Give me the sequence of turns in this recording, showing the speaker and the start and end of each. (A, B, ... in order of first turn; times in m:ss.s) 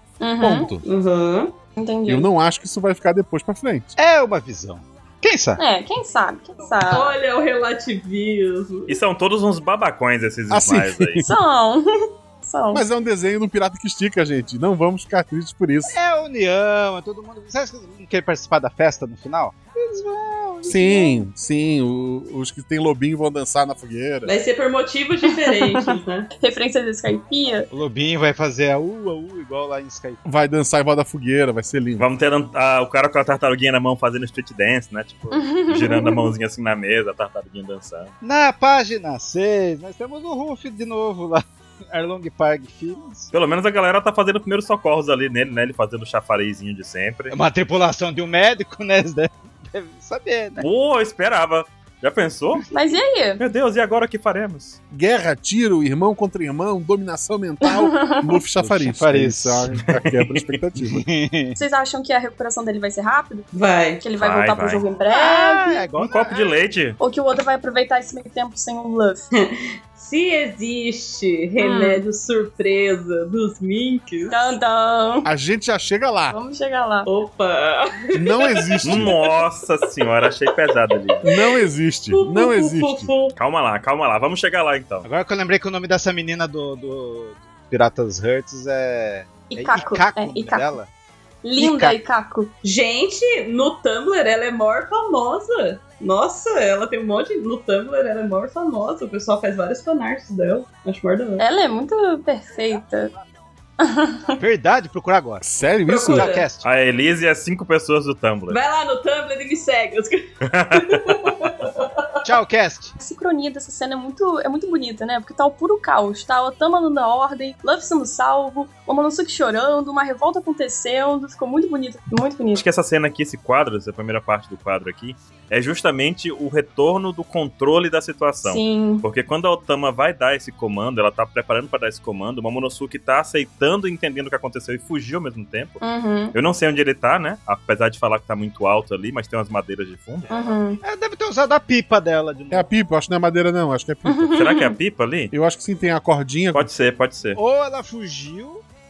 0:00.2-0:00.7 A
0:00.4-0:00.8 B
0:00.8-0:01.5 C
0:01.8-0:02.3 A
0:02.1-0:04.0 B
0:04.0-0:05.6 D
0:05.6-0:07.2 A
0:06.8-0:09.0 C
0:08.9-0:11.3 E
0:10.5-0:11.4 B
0:11.2-0:12.8 A
0:12.7-0:16.0 B
0:15.9-0:21.1 D
0:20.6-0:24.3 B
0:24.2-0:26.3 C
0:25.3-0:27.7 A
0:27.7-0:30.2 D
0:30.2-0:32.1 B
0:32.0-0:38.1 E
0:35.3-0:36.3 A
0:38.2-0:43.3 D
0:43.3-0:47.4 E
0:47.3-0:50.7 D
0:50.6-0:52.6 E
0:52.7-0:53.4 A
0:53.4-0:54.8 E
0:54.9-1:01.0 B
0:57.6-0:58.3 A
0:58.6-0:59.8 D
0:59.9-1:00.6 E
1:00.9-1:01.6 D
1:01.6-1:03.5 A
1:03.5-1:04.0 C
1:04.0-1:05.8 A
1:04.2-1:04.8 E
1:05.1-1:06.6 D
1:06.0-1:07.0 E
1:07.0-1:09.2 A
1:09.3-1:14.6 C
1:11.6-1:12.0 A
1:14.3-1:15.3 A
1:15.2-1:16.4 B
1:16.3-1:17.1 A
1:17.1-1:19.4 C
1:18.1-1:19.1 B
1:18.8-1:21.2 E
1:20.3-1:21.6 C
1:21.2-1:23.1 B
1:22.1-1:23.4 C
1:23.4-1:25.1 E
1:25.0-1:30.9 D
1:29.5-1:30.8 A
1:31.4-1:32.5 A
1:31.6-1:32.0 D
1:32.6-1:41.4 C
1:41.4-1:43.1 A
1:43.8-1:44.2 A
1:44.4-1:45.4 D
1:45.4-1:46.3 B
1:45.9-1:46.5 C
1:46.1-1:46.7 D
1:46.6-1:48.6 E
1:48.5-1:52.1 C
1:50.4-1:51.2 E
1:52.2-1:53.0 D
1:53.0-2:02.6 A
2:02.5-2:15.8 E
2:08.4-2:09.1 A
2:15.8-2:16.4 A
2:16.3-2:20.3 E
2:20.3-2:20.8 A
2:20.8-2:22.7 D
2:22.5-2:24.4 B
2:24.1-2:24.8 A
2:24.4-2:25.3 E
2:25.3-2:26.7 B
2:26.5-2:27.4 E
2:27.4-2:28.6 D